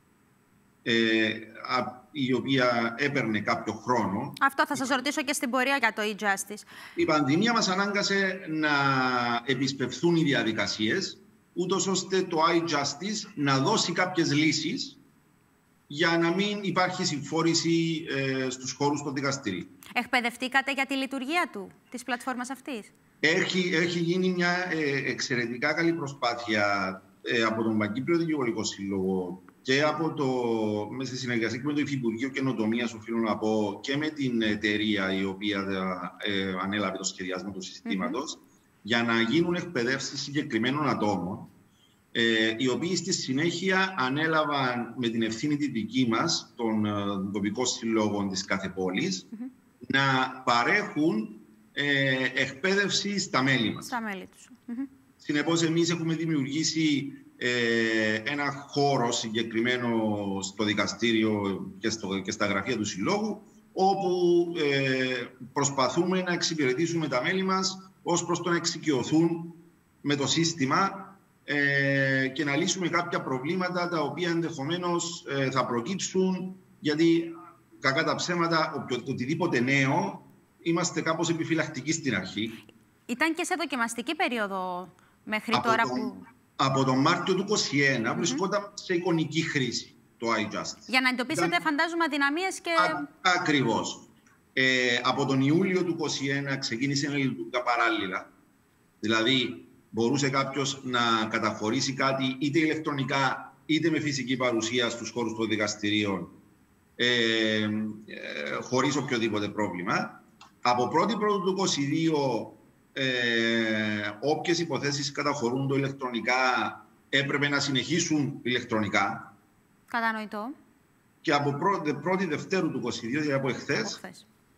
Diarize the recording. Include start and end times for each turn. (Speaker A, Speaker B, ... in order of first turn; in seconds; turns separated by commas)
Speaker A: 0.8-5.0, Speaker B: 4.4-6.7, Speaker A: 7.0-15.0, Speaker A: 15.9-19.7, Speaker B: 19.9-22.9, Speaker A: 23.2-41.5, Speaker B: 37.9-38.2, Speaker A: 42.1-49.3, Speaker A: 49.9-53.9, Speaker B: 53.8-54.9, Speaker A: 55.2-82.6, Speaker B: 83.1-86.3, Speaker A: 85.5-91.6, Speaker B: 88.2-88.4, Speaker B: 90.9-93.0, Speaker A: 92.8-98.3, Speaker A: 99.0-106.3, Speaker A: 107.0-119.3, Speaker B: 119.9-120.5, Speaker A: 121.2-124.0, Speaker B: 123.8-124.2